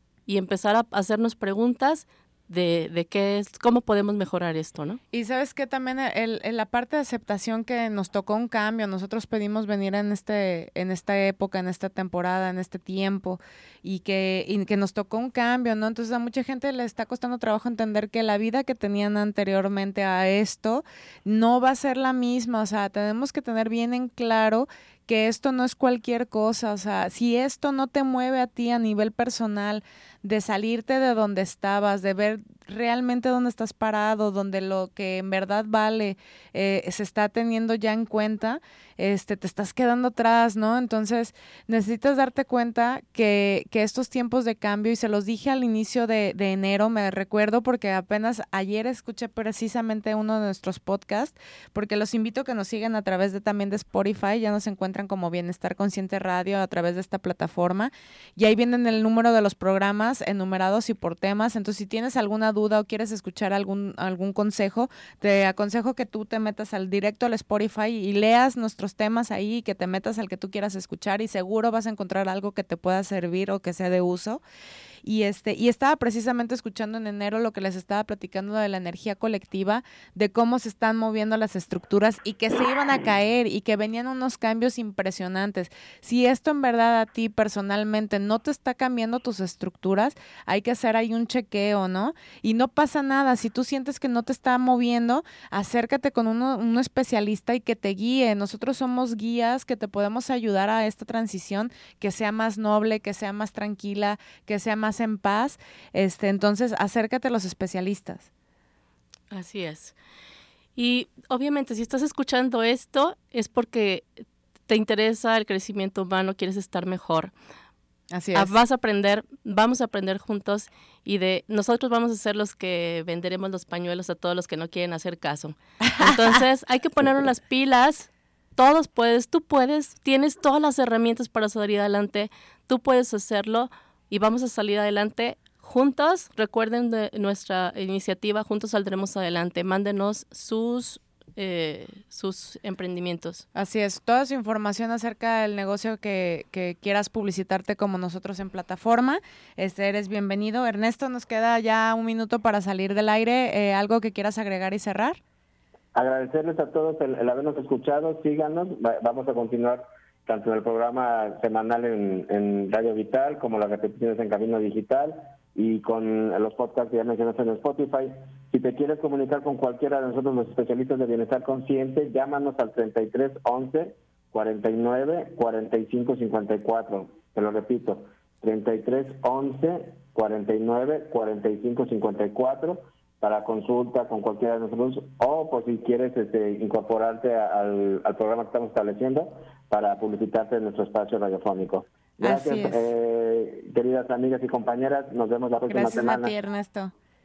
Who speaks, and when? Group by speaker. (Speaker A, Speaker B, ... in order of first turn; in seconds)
Speaker A: 0.3-5.0, 109.3-109.9, 110.8-117.3, 118.3-143.4
Speaker B: 5.1-74.4, 75.0-108.3, 118.1-118.5, 125.8-126.2, 143.5-155.2, 192.2-192.8, 195.7-196.9
Speaker C: 155.9-196.3